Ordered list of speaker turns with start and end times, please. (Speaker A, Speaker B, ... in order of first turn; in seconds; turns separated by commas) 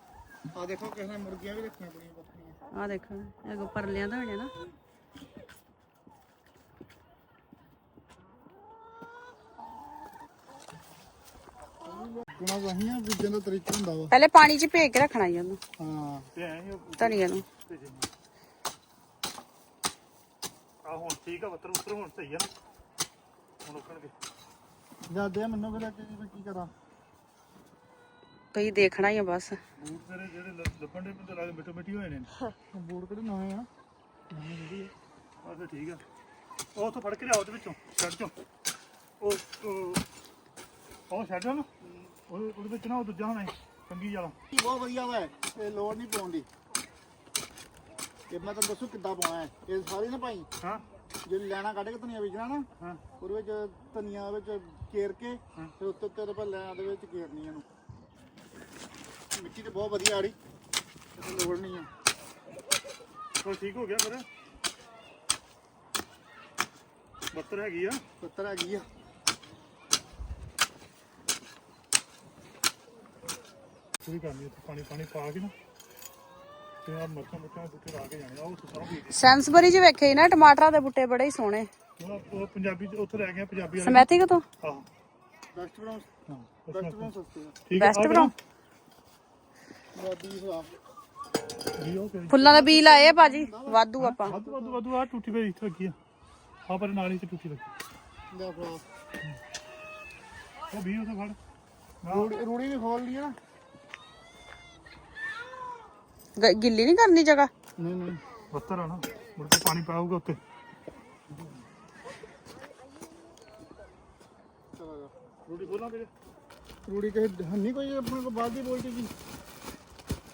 Speaker A: 0.5-2.6, Speaker B: 2.7-4.5, Speaker A: 11.8-14.1, Speaker B: 14.1-15.6, Speaker A: 15.8-16.3, Speaker C: 16.3-18.1, Speaker B: 17.0-17.4, Speaker C: 20.8-22.5, Speaker C: 23.6-24.1, Speaker A: 25.1-26.7, Speaker B: 28.5-29.6, Speaker C: 29.8-32.3, Speaker A: 32.7-33.7, Speaker C: 34.3-36.0, Speaker C: 36.8-38.3, Speaker C: 39.2-40.0, Speaker C: 41.1-41.7, Speaker A: 41.8-42.1, Speaker C: 42.3-44.4, Speaker A: 44.5-46.5, Speaker A: 48.3-50.5, Speaker A: 51.2-52.7, Speaker A: 53.2-57.6, Speaker A: 59.4-60.4, Speaker A: 61.2-61.9, Speaker C: 63.4-64.3, Speaker C: 67.3-68.0, Speaker A: 68.2-68.9, Speaker C: 74.0-75.5, Speaker C: 76.9-79.4, Speaker B: 79.1-81.7, Speaker C: 82.0-84.1, Speaker B: 83.8-84.5, Speaker C: 84.6-84.9, Speaker A: 85.5-86.1, Speaker C: 86.3-87.1, Speaker A: 86.7-87.6, Speaker C: 87.7-88.3, Speaker B: 87.8-88.3, Speaker A: 90.0-90.7, Speaker C: 91.8-92.4, Speaker B: 92.3-94.3, Speaker A: 92.4-94.8, Speaker C: 94.0-96.0, Speaker C: 96.7-97.7, Speaker A: 98.3-98.8, Speaker C: 100.7-101.4, Speaker C: 102.0-102.3, Speaker A: 102.1-103.4, Speaker B: 106.4-107.5, Speaker A: 107.8-108.2, Speaker C: 108.5-110.4, Speaker A: 114.8-115.1, Speaker C: 115.5-116.1, Speaker A: 116.9-119.1